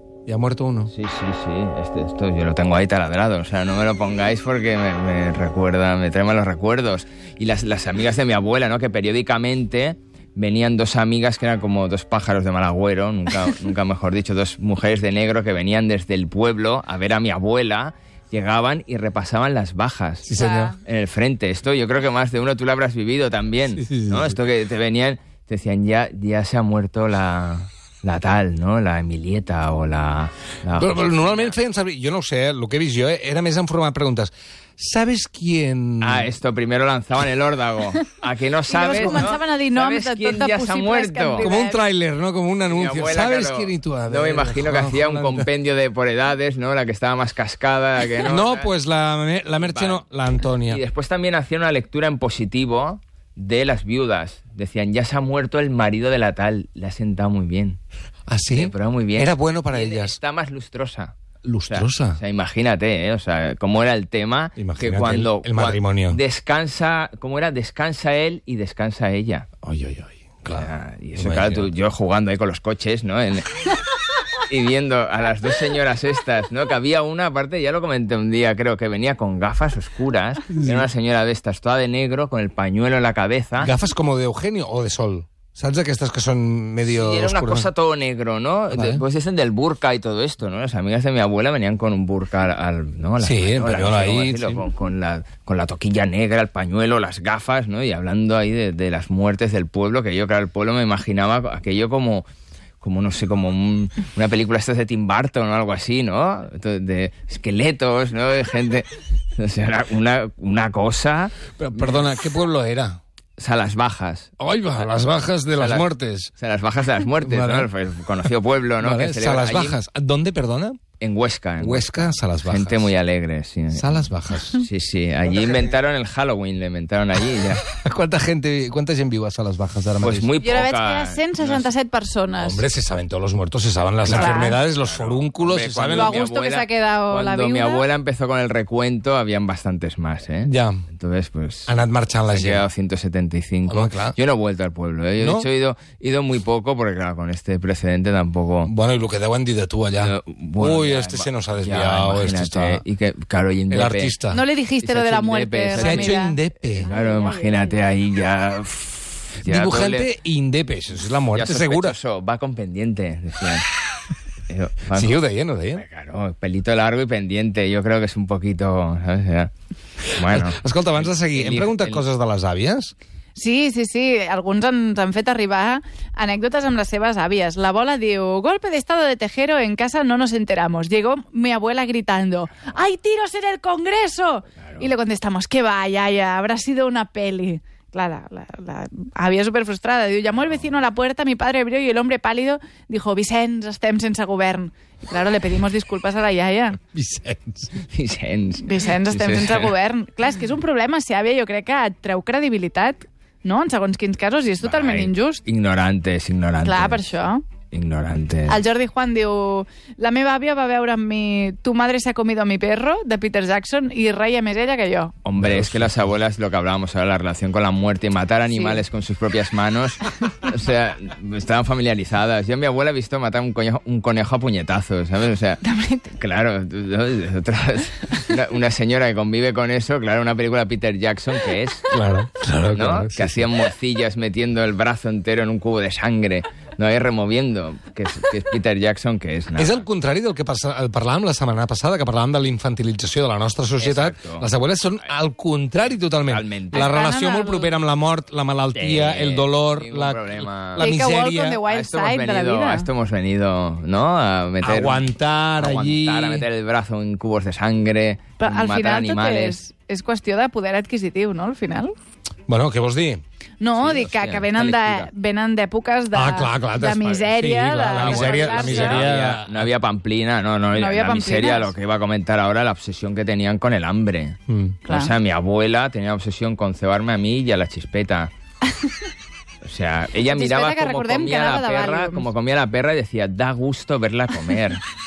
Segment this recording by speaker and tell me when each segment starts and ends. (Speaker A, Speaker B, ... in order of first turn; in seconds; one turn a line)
Speaker A: 0.3-0.9
Speaker B: 0.9-31.6
Speaker A: 20.2-20.7
Speaker C: 20.4-20.8
Speaker A: 23.7-24.4
Speaker A: 30.8-36.3
Speaker B: 36.0-41.5
Speaker C: 38.7-41.8
Speaker A: 39.0-39.3
Speaker A: 41.4-45.5
Speaker B: 42.7-48.7
Speaker A: 48.2-50.8
Speaker B: 49.6-50.0
Speaker B: 50.7-57.8
Speaker A: 58.3-60.2
Speaker B: 58.5-61.1
Speaker A: 61.4-62.2
Speaker B: 61.7-69.5
Speaker A: 64.6-66.2
Speaker A: 69.6-71.7
Speaker B: 70.5-73.7
Speaker B: 74.5-83.7
Speaker A: 83.6-87.7
Speaker B: 86.9-102.3
Speaker A: 88.7-89.0
Speaker A: 93.2-94.6
Speaker B: 102.8-112.1
Speaker A: 111.6-113.0
Speaker B: 113.4-114.3
Speaker A: 114.4-116.3
Speaker B: 115.5-119.8
Speaker A: 117.2-117.7
Speaker A: 118.8-120.8
Speaker B: 121.0-127.7
Speaker A: 121.6-122.9
Speaker A: 123.7-124.7
Speaker A: 127.7-130.3
Speaker B: 130.0-131.7
Speaker C: 130.4-132.7
Speaker A: 132.4-136.2
Speaker B: 134.0-148.7
Speaker C: 134.1-134.6
Speaker C: 135.9-137.9
Speaker A: 140.4-140.8
Speaker A: 141.7-142.7
Speaker A: 143.7-144.2
Speaker A: 145.2-145.5
Speaker A: 148.7-152.8
Speaker B: 150.0-154.2
Speaker A: 153.7-154.4
Speaker C: 154.3-157.8
Speaker B: 154.8-160.1
Speaker A: 155.8-156.9
Speaker A: 159.4-162.0
Speaker B: 161.3-163.7
Speaker B: 164.5-165.2
Speaker A: 164.9-165.8
Speaker B: 165.8-169.5
Speaker B: 170.2-172.0
Speaker A: 170.2-172.9
Speaker C: 173.3-196.8
Speaker B: 184.6-184.9
Speaker A: 196.9-197.8
Speaker B: 197.9-199.7
Speaker C: 198.6-205.4
Speaker B: 204.6-208.6
Speaker C: 206.6-207.4
Speaker C: 208.5-215.1
Speaker B: 215.2-231.9
Speaker A: 215.4-215.9
Speaker C: 218.5-218.8
Speaker C: 225.6-226.1
Speaker A: 231.9-233.5
Speaker B: 232.7-239.8
Speaker A: 239.6-251.6
Speaker B: 243.8-244.5
Speaker B: 246.3-246.9
Speaker C: 246.7-247.7
Speaker B: 248.8-250.9
Speaker C: 250.8-252.9
Speaker B: 251.7-259.6
Speaker A: 254.6-256.5
Speaker C: 258.4-261.9
Speaker A: 262.5-263.2
Speaker C: 263.6-269.1
Speaker B: 263.8-265.1
Speaker A: 266.1-269.7
Speaker B: 267.9-278.3
Speaker C: 270.8-271.7
Speaker A: 274.5-274.8
Speaker C: 274.9-275.1
Speaker B: 279.6-284.8
Speaker C: 280.2-282.3